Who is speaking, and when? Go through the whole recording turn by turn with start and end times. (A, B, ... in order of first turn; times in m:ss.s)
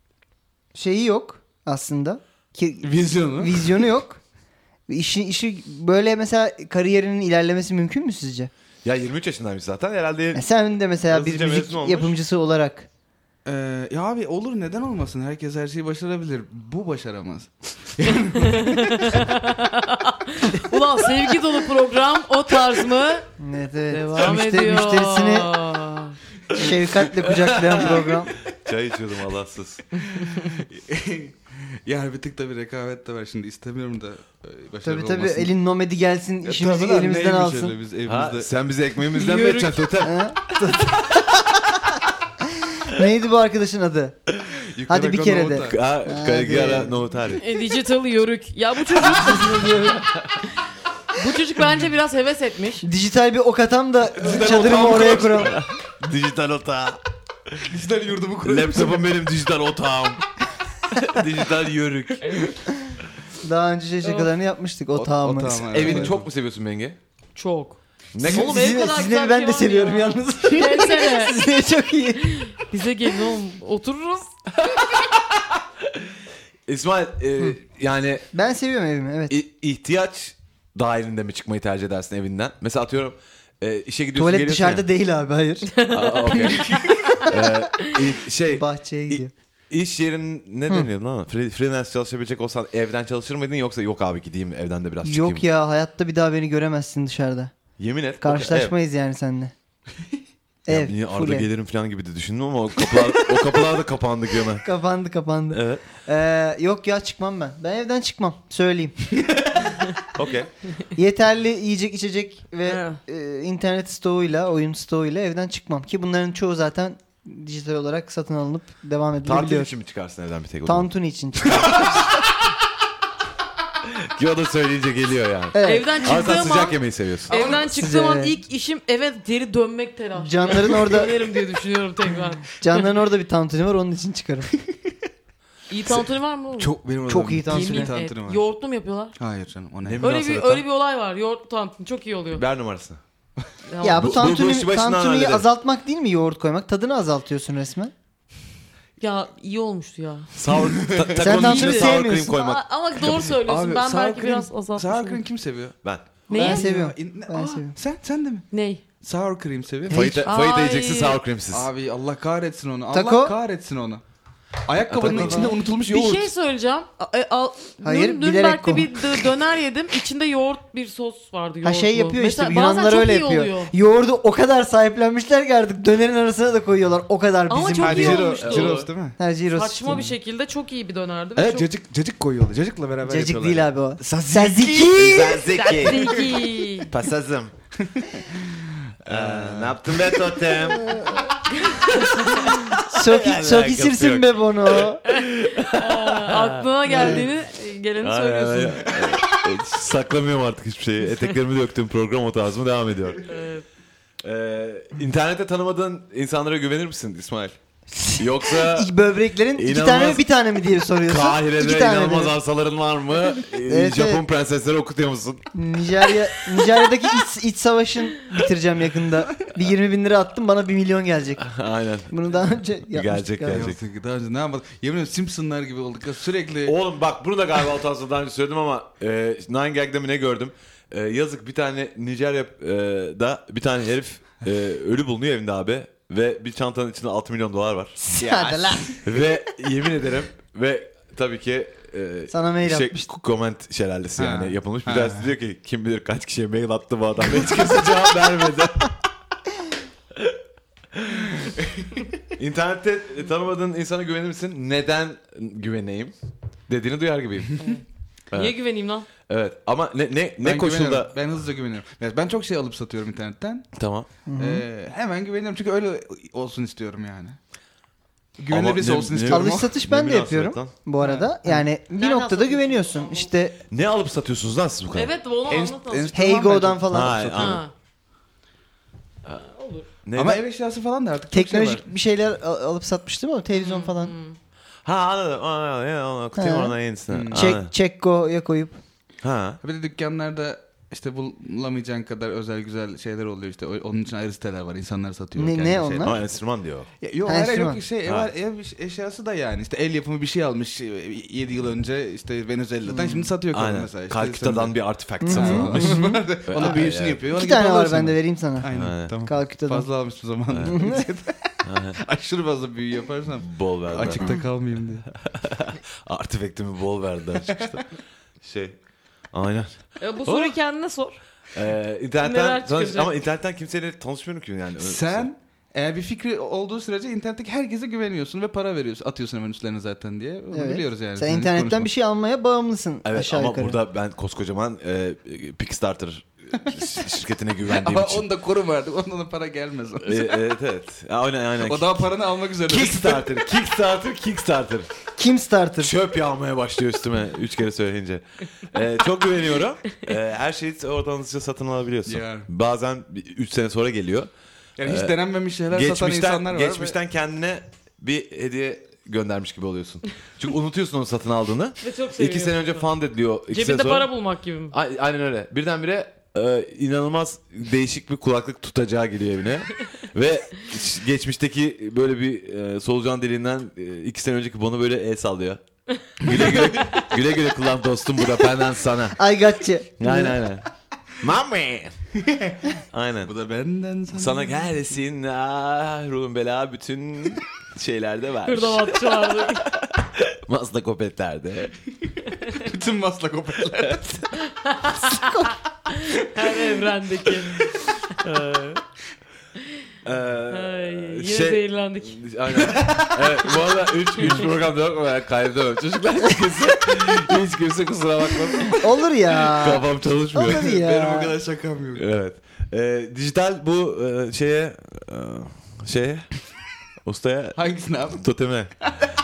0:00.7-0:02.9 A
0:02.8-0:03.9 B
0:03.4-0:04.2 A
0:04.9-0:08.5 A
0:08.8-0:10.4 C
0:10.3-0:12.9 A
0:11.1-0:12.2 C
0:13.4-0:19.1 B
0:18.4-0:23.2 D
0:23.4-0:25.5 A
0:23.9-0:26.2 D
0:26.5-0:28.3 A
0:27.3-0:28.0 C
0:28.5-0:29.8 C
0:30.1-0:35.5 B
0:34.8-0:37.8 A
0:36.4-0:38.5 B
0:38.0-0:40.2 C
0:39.2-0:39.8 D
0:40.0-0:41.3 A
0:42.6-0:44.2 A
0:44.6-0:45.8 B
0:44.9-0:47.0 A
0:45.6-0:47.4 C
0:47.3-0:50.0 D
0:49.0-0:50.0 A
0:51.2-0:52.9 D
0:52.8-0:55.6 A
0:54.2-0:55.6 B
0:54.5-0:57.6 C
0:57.6-0:59.1 B
0:58.4-1:00.2 C
1:00.9-1:02.5 C
1:03.4-1:06.1 A
1:04.9-1:06.3 B
1:05.7-1:07.0 C
1:07.4-1:11.4 D
1:08.1-1:08.8 C
1:08.2-1:12.4 A
1:12.3-1:14.3 D
1:14.7-1:15.0 C
1:16.7-1:18.3 C
1:18.3-1:19.4 A
1:19.3-1:24.9 C
1:24.2-1:25.8 A
1:25.8-1:26.9 D
1:25.9-1:35.4 C
1:26.6-1:27.0 B
1:28.5-1:29.3 A
1:35.0-1:37.5 A
1:37.8-1:38.8 C
1:38.2-1:39.5 A
1:40.7-1:41.5 A
1:40.7-1:44.6 C
1:44.6-1:49.2 A
1:45.5-1:45.8 C
1:50.1-1:50.5 C
1:50.9-1:59.7 A
1:52.6-1:53.0 D
1:59.2-2:00.9 C
2:00.7-2:02.0 A
2:01.4-2:02.0 C
2:03.8-2:07.4 C
2:05.5-2:06.1 A
2:05.6-2:12.6 D
2:07.3-2:07.7 B
2:07.6-2:08.4 A
2:10.2-2:11.1 A
2:12.6-2:14.5 A
2:15.7-2:16.7 D
2:16.6-2:18.5 B
2:17.1-2:17.9 A
2:17.5-2:19.2 D
2:19.2-2:20.0 B
2:19.8-2:20.6 C
2:20.0-2:22.4 D
2:22.3-2:23.0 C
2:23.7-2:24.3 D
2:23.8-2:27.9 A
2:24.0-2:25.5 C
2:29.0-2:30.3 D
2:30.3-2:33.2 C
2:30.7-2:31.2 B
2:31.2-2:32.4 A
2:31.3-2:35.2 D
2:33.0-2:35.8 B
2:36.3-2:38.5 B
2:36.3-2:36.7 D
2:36.3-2:37.7 A
2:38.5-2:38.8 D
2:39.0-2:40.1 B
2:39.9-2:40.2 A
2:39.9-2:41.7 C
2:40.2-2:41.2 D
2:41.5-2:44.0 B
2:42.9-2:43.4 A
2:44.6-2:46.3 B
2:44.9-2:45.5 C
2:45.0-2:45.5 A
2:45.7-2:53.7 D
2:47.8-2:49.1 A
2:51.6-2:58.4 A
2:57.5-2:58.8 D
2:57.8-2:59.2 B
2:58.4-2:58.9 C
2:59.2-3:00.0 A
2:59.5-3:01.7 D
3:01.4-3:05.3 B
3:03.1-3:05.5 A
3:05.0-3:06.2 C
3:05.5-3:06.9 D
3:05.9-3:06.3 B
3:06.9-3:07.5 C
3:07.8-3:10.2 B
3:09.1-3:11.0 C
3:10.9-3:11.2 A
3:11.7-3:12.5 D
3:12.4-3:17.2 C
3:12.8-3:15.0 A
3:15.7-3:18.9 D
3:17.0-3:17.2 A
3:18.0-3:23.2 C
3:23.3-3:23.6 D
3:24.2-3:27.6 C
3:28.0-3:32.3 A
3:28.2-3:28.9 C
3:29.6-3:30.2 C
3:31.0-3:35.5 C
3:33.7-3:34.2 A
3:35.5-3:41.5 A
3:41.4-3:43.8 C
3:42.1-3:43.7 A
3:43.5-3:46.8 B
3:46.6-3:58.0 C
3:58.0-3:59.0 A
3:58.1-3:59.0 B
3:59.0-4:08.9 C
4:02.3-4:03.1 A
4:04.2-4:05.3 B
4:10.9-4:11.5 C
4:11.6-4:11.9 B
4:12.4-4:16.1 C
4:16.7-4:17.6 C
4:17.6-4:19.1 D
4:18.3-4:18.6 C
4:19.2-4:21.1 C
4:20.4-4:23.7 B
4:23.8-4:24.1 C
4:24.3-4:24.6 A
4:24.4-4:27.4 B
4:28.4-4:29.7 B
4:28.5-4:30.7 C
4:29.3-4:33.6 A
4:31.0-4:31.6 B
4:32.0-4:33.3 D
4:33.7-4:35.1 C
4:34.9-4:36.3 D
4:35.5-4:37.6 B
4:36.1-4:37.4 A
4:36.9-4:37.6 C
4:37.4-4:37.7 D
4:39.3-4:39.9 D
4:40.0-4:40.4 C
4:40.2-4:41.9 B
4:41.3-4:44.1 A
4:43.5-4:44.4 D
4:44.8-4:47.7 C
4:46.4-4:46.8 A
4:47.1-4:47.6 B
4:47.3-4:48.8 A
4:49.2-4:49.6 C
4:49.6-4:56.2 B
4:55.4-4:56.2 A
4:56.0-4:56.9 C
4:57.0-5:15.1 B
4:57.3-4:57.8 A
4:58.1-4:58.3 C
5:02.9-5:03.3 A
5:03.5-5:07.2 C
5:05.2-5:08.7 A
5:08.7-5:09.1 C
5:09.2-5:09.9 A
5:10.5-5:10.8 C
5:10.7-5:11.0 A
5:11.6-5:12.0 C
5:13.4-5:14.3 C
5:15.2-5:17.9 C
5:18.4-5:18.8 C
5:19.3-5:20.6 C
5:20.0-5:21.2 D
5:21.5-5:25.3 C
5:22.2-5:23.1 D
5:24.8-5:31.9 B
5:30.5-5:33.8 A
5:33.0-5:38.2 C
5:37.7-5:40.4 B
5:40.0-5:42.0 C
5:41.6-5:43.4 B
5:42.7-5:44.9 C
5:45.2-5:45.9 A
5:45.8-5:54.3 C
5:52.1-5:52.5 B
5:54.8-5:57.0 B
5:54.8-5:55.2 C
5:55.7-6:04.1 C
6:01.8-6:02.9 D
6:03.5-6:04.8 D
6:04.7-6:15.6 C
6:16.2-6:19.2 C
6:16.3-6:16.6 B
6:19.2-6:20.4 A
6:20.0-6:20.6 C
6:21.2-6:22.0 C
6:22.2-6:22.6 B
6:22.9-6:23.3 C
6:23.2-6:24.6 B
6:24.1-6:31.8 C
6:28.4-6:29.7 D
6:32.5-6:34.3 B
6:34.4-6:37.8 D
6:35.1-6:35.5 A
6:36.4-6:36.6 B
6:38.2-6:38.8 C
6:40.0-6:50.7 C
6:40.5-6:42.2 D
6:42.5-6:43.2 B
6:48.7-6:51.4 A
6:50.4-6:52.1 B
6:52.0-6:56.3 C
6:57.0-6:57.6 C
6:57.6-6:58.2 B
6:58.2-6:58.7 C
6:58.8-6:59.1 B